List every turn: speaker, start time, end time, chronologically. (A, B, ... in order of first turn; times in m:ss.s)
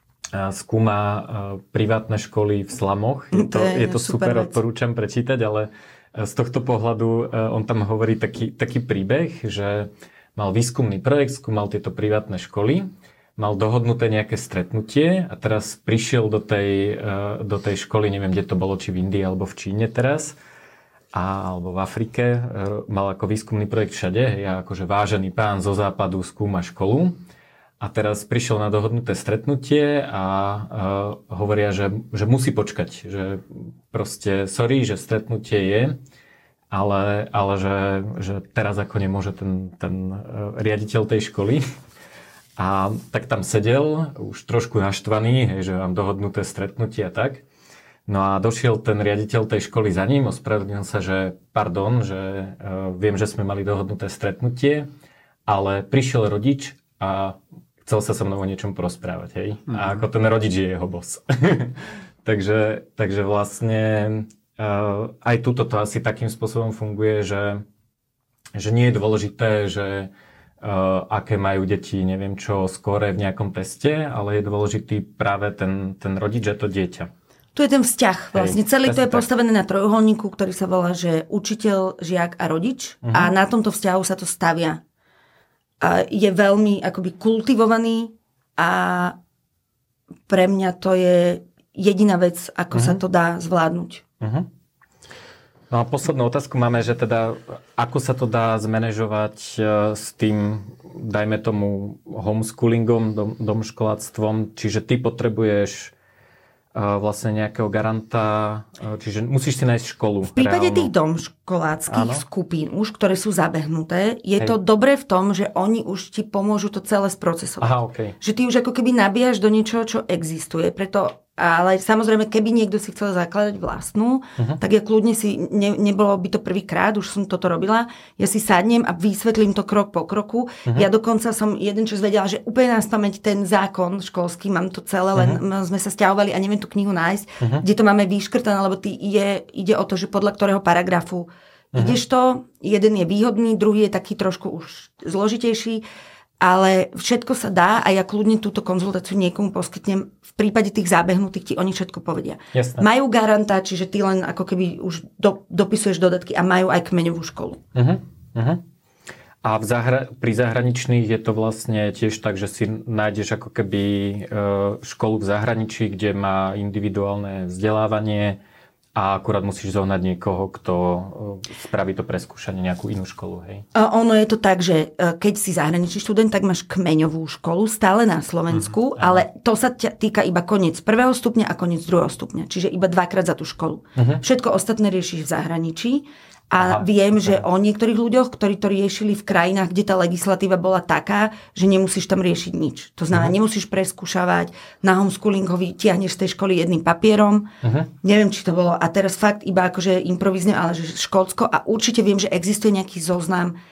0:00.3-0:20.4 A
0:03.3-0:04.6 B
0:21.1-0:27.2 A
0:27.8-0:36.0 A
0:36.7-0:41.6 A
0:42.6-0:47.4 A
0:48.1-0:54.9 A
0:55.5-1:07.6 A
1:08.5-1:17.1 A
1:17.5-1:24.8 B
1:18.3-1:19.3 A
1:23.0-1:23.3 A
1:25.8-1:29.2 B
1:30.3-1:34.0 B
1:32.7-1:33.0 A
1:34.2-1:34.5 A
1:35.7-1:45.9 A
1:46.7-1:50.9 A
1:50.3-2:25.8 B
1:51.9-1:52.2 A
1:57.6-1:58.2 A
2:26.4-2:37.6 B
2:32.5-2:32.8 A
2:37.7-2:38.6 A
2:39.4-2:48.4 A
2:49.0-2:53.6 A
2:53.7-3:17.5 B
2:59.0-2:59.2 A
3:04.0-3:04.2 A
3:06.6-3:07.4 A
3:17.6-3:17.9 A
3:18.0-3:23.6 B